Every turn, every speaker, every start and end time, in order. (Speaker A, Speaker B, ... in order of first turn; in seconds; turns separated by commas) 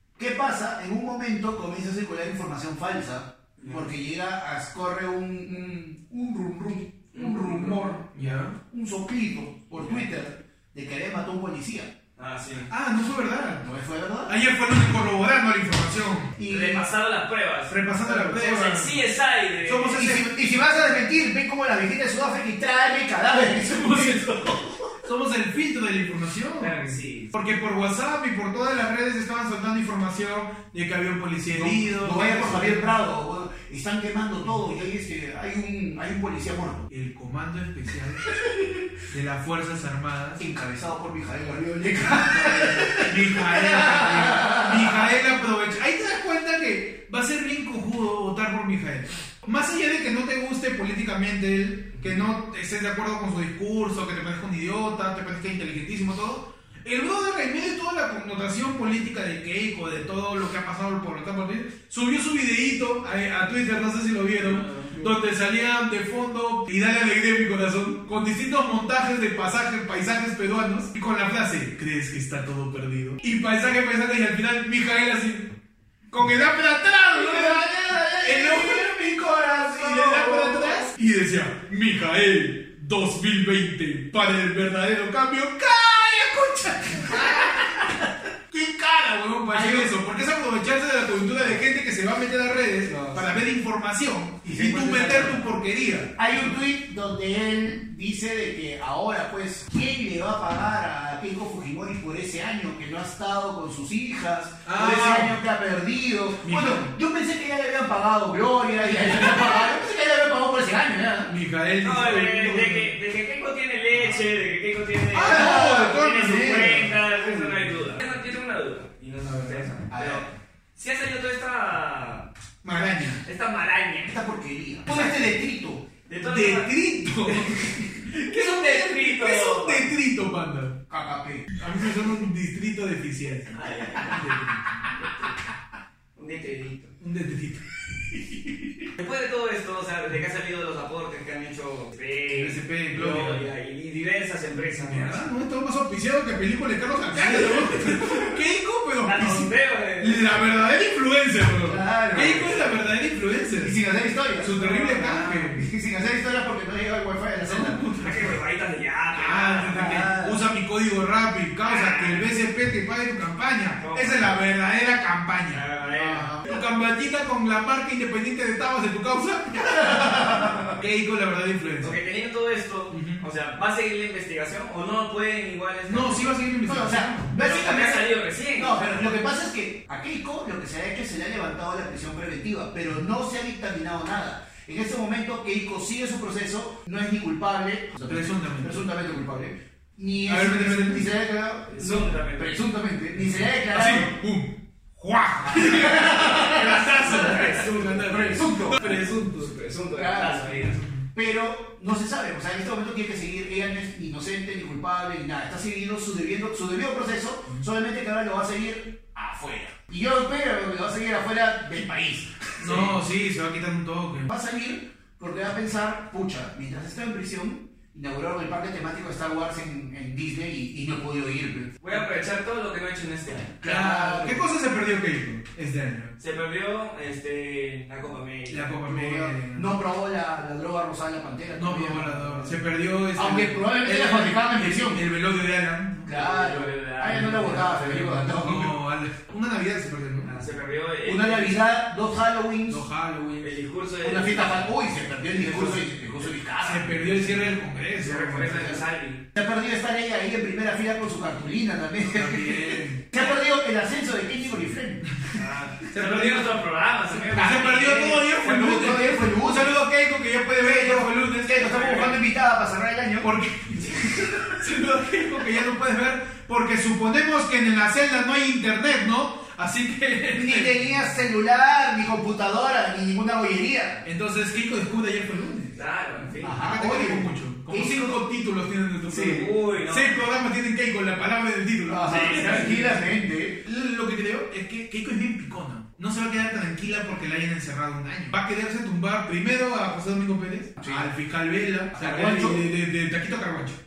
Speaker A: 0.2-11.9, Speaker B: 3.6-3.9, Speaker B: 7.1-8.0, Speaker C: 8.1-8.5, Speaker B: 12.2-12.7, Speaker C: 12.7-13.7, Speaker A: 13.6-14.3, Speaker C: 14.3-16.3, Speaker A: 16.4-16.9, Speaker B: 16.5-20.2, Speaker C: 17.7-19.0, Speaker C: 19.6-20.3, Speaker A: 19.9-24.8, Speaker C: 23.6-32.9, Speaker B: 26.6-27.3, Speaker A: 31.5-36.9, Speaker C: 36.9-38.4, Speaker A: 38.4-38.8, Speaker C: 39.0-40.4, Speaker A: 40.4-45.1, Speaker C: 42.1-75.5, Speaker B: 64.4-65.0, Speaker C: 76.1-88.0, Speaker A: 77.1-80.9, Speaker A: 87.1-88.0, Speaker C: 88.5-96.6, Speaker A: 89.5-89.9, Speaker A: 92.8-93.4, Speaker A: 94.4-95.4, Speaker A: 96.2-111.3, Speaker C: 104.6-105.3, Speaker C: 106.4-106.9, Speaker C: 111.3-112.9, Speaker B: 111.8-122.3, Speaker C: 113.9-114.2, Speaker C: 115.1-117.6, Speaker A: 115.2-116.8, Speaker C: 119.2-119.7, Speaker A: 119.9-120.3, Speaker C: 122.6-123.2, Speaker B: 123.2-124.1, Speaker A: 124.0-125.8, Speaker B: 124.9-125.2, Speaker B: 126.0-129.9, Speaker C: 126.2-130.8, Speaker A: 130.9-131.5, Speaker C: 131.5-134.9, Speaker B: 133.5-135.3, Speaker B: 136.2-136.9, Speaker C: 137.0-137.6, Speaker B: 139.0-145.3, Speaker C: 142.3-143.5, Speaker C: 144.7-153.7, Speaker A: 147.1-148.3, Speaker B: 149.0-150.4, Speaker A: 151.6-152.7, Speaker A: 153.6-157.8, Speaker C: 154.4-155.7, Speaker C: 157.4-158.4, Speaker B: 158.0-160.0, Speaker C: 159.1-172.0, Speaker A: 159.7-160.4, Speaker B: 161.6-162.3, Speaker B: 163.8-164.3, Speaker B: 165.5-166.3, Speaker A: 166.0-166.5, Speaker A: 169.6-170.8, Speaker B: 171.8-176.3, Speaker C: 172.9-173.2, Speaker C: 175.9-177.3, Speaker A: 176.6-194.2, Speaker B: 177.3-178.8, Speaker C: 188.1-188.8, Speaker C: 190.2-191.1, Speaker B: 191.7-192.6, Speaker C: 193.2-199.5, Speaker A: 195.5-198.9, Speaker B: 195.8-198.0, Speaker B: 198.7-200.8, Speaker A: 199.9-200.6, Speaker C: 200.6-201.1, Speaker A: 201.1-212.9, Speaker C: 212.6-214.3, Speaker A: 214.3-221.7, Speaker B: 221.8-223.6, Speaker A: 223.6-224.4, Speaker C: 223.6-226.1, Speaker B: 226.2-228.8, Speaker C: 228.5-229.7, Speaker A: 228.8-232.6, Speaker C: 231.6-236.2, Speaker A: 233.2-235.0, Speaker A: 236.0-238.8, Speaker B: 236.1-237.7, Speaker C: 237.0-240.3, Speaker B: 240.2-241.6, Speaker A: 241.0-242.8, Speaker C: 242.7-243.5, Speaker B: 243.4-244.7, Speaker A: 244.0-247.5, Speaker C: 245.4-245.8, Speaker C: 246.6-248.8, Speaker B: 248.0-249.2, Speaker A: 249.3-255.1, Speaker C: 252.1-253.0, Speaker B: 255.3-258.2, Speaker C: 255.9-256.6, Speaker C: 257.1-261.9, Speaker A: 258.4-259.8, Speaker A: 260.6-263.3, Speaker B: 261.6-262.2, Speaker C: 263.2-271.0, Speaker A: 263.9-264.5, Speaker A: 270.3-274.0, Speaker C: 274.0-275.7, Speaker B: 275.7-276.6, Speaker A: 276.4-278.2, Speaker C: 276.4-283.1, Speaker B: 279.1-280.2, Speaker A: 281.9-283.6, Speaker B: 282.1-282.7, Speaker C: 283.6-293.8, Speaker A: 290.8-291.1, Speaker A: 291.9-292.6